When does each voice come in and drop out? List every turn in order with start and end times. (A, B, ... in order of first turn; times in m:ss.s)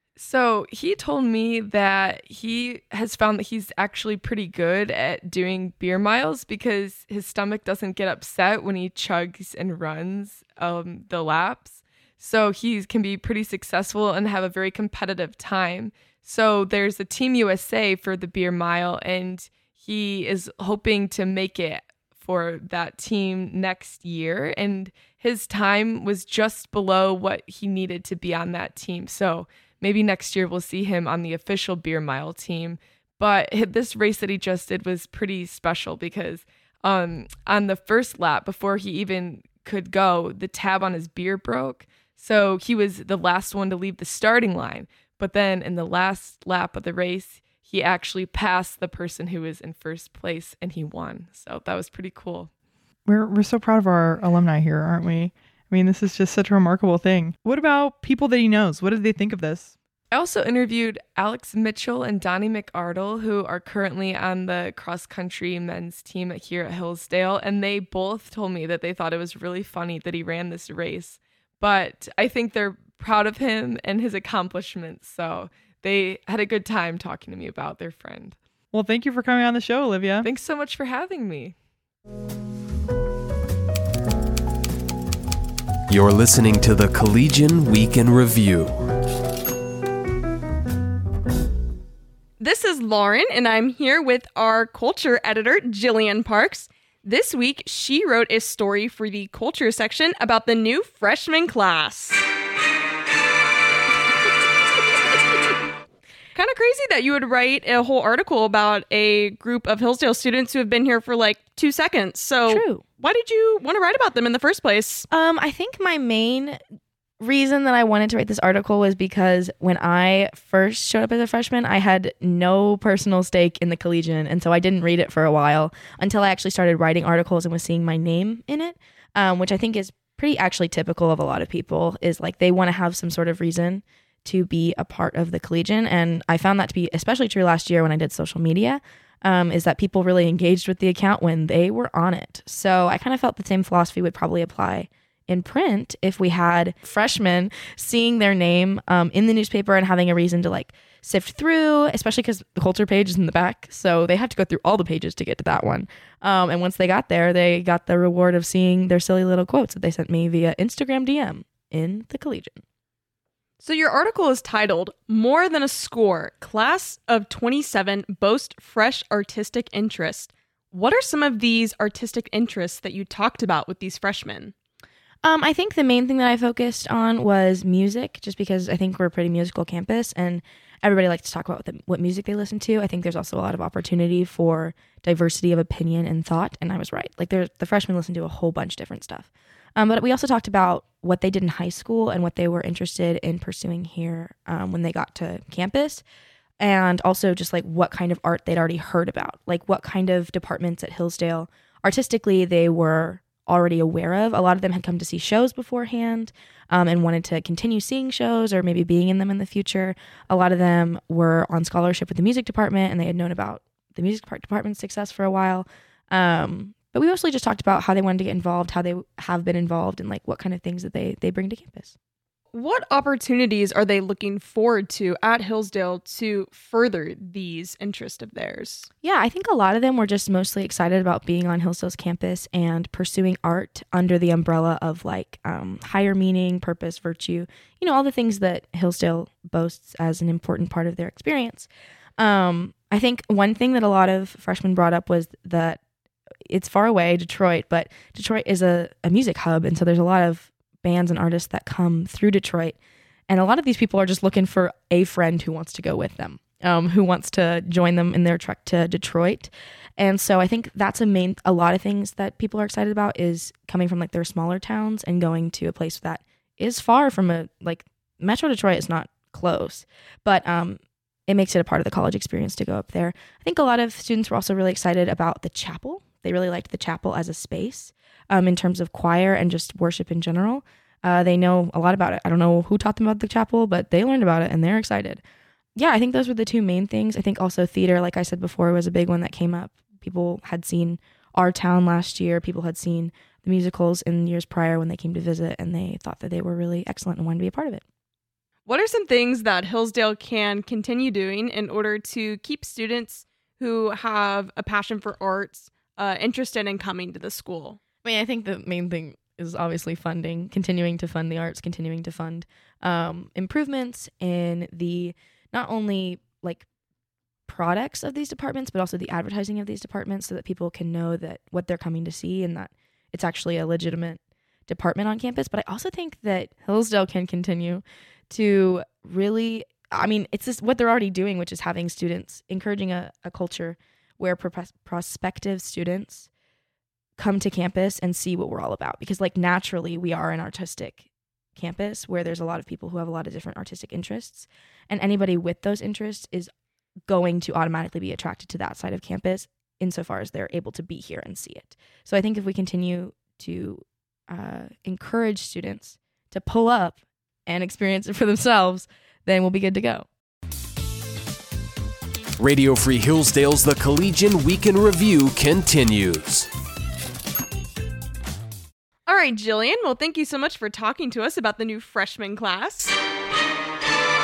0:00.2-0:52.5 A
0:53.0-0:59.7 B
1:00.1-1:18.4 A
1:18.7-1:20.3 B
1:20.2-1:21.6 A
1:25.9-1:28.8 C
1:32.4-1:42.2 D
1:46.3-1:55.1 D
1:52.5-1:52.8 E
1:55.1-1:56.6 E
1:57.2-2:42.6 E
2:43.6-2:54.5 D
2:55.2-3:16.0 E
3:16.6-3:41.9 E
3:42.5-3:48.9 D
3:49.0-4:05.8 E
4:06.5-4:12.8 E
4:13.3-4:45.2 E
4:45.8-4:57.8 E
4:58.6-5:07.8 D
5:08.0-5:16.6 E
5:17.5-5:36.3 E
5:37.2-5:46.5 E
5:47.1-6:00.1 E
6:02.4-6:06.5 C
6:09.0-6:13.0 D